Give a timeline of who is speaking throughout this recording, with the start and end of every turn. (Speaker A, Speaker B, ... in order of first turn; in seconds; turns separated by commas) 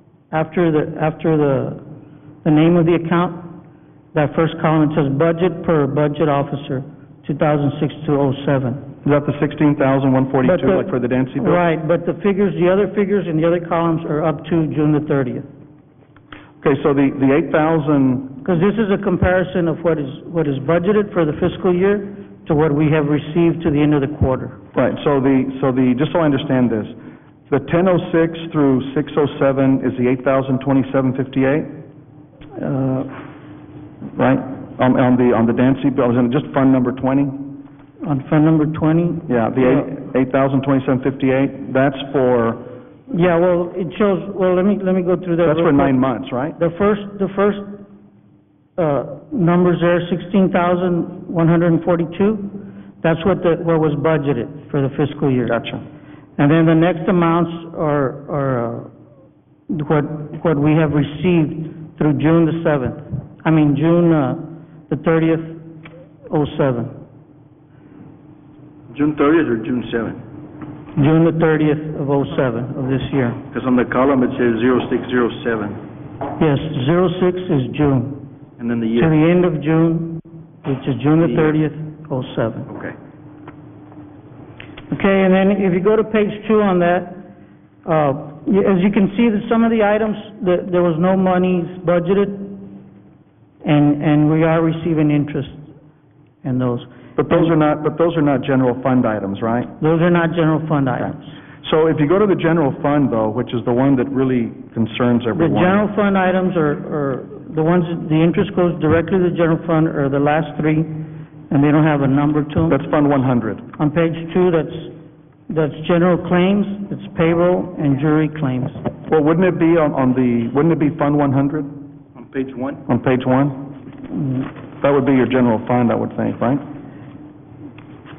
Speaker A: 0.3-1.8, Speaker A: 2.4-3.5, Speaker A: 4.1-8.9, Speaker B: 9.0-11.6, Speaker A: 10.4-10.9, Speaker A: 11.4-15.5, Speaker B: 16.6-18.4, Speaker A: 18.4-24.6, Speaker B: 24.7-26.9, Speaker B: 27.5-31.7, Speaker A: 32.6-33.1, Speaker B: 34.2-37.5, Speaker A: 38.0-39.9, Speaker B: 39.3-42.7, Speaker A: 43.1-46.0, Speaker B: 45.4-46.6, Speaker A: 46.6-47.8, Speaker A: 48.8-55.6, Speaker B: 55.5-55.8, Speaker A: 56.4-58.9, Speaker A: 59.7-65.6, Speaker A: 66.3-67.0, Speaker C: 68.9-70.2, Speaker A: 71.0-73.4, Speaker C: 73.5-75.8, Speaker A: 76.4-78.2, Speaker C: 78.6-79.2, Speaker A: 79.0-82.7, Speaker C: 81.2-81.6, Speaker C: 82.7-83.0, Speaker A: 84.9-87.3, Speaker A: 87.8-92.7, Speaker A: 93.6-95.7, Speaker A: 96.4-97.5, Speaker B: 97.2-99.7, Speaker A: 99.8-101.4, Speaker B: 101.6-105.8, Speaker A: 105.3-112.8, Speaker B: 112.7-113.7, Speaker A: 113.8-114.9, Speaker A: 115.5-118.8, Speaker B: 119.1-121.7, Speaker C: 122.2-122.8, Speaker B: 122.9-123.6, Speaker B: 124.8-126.6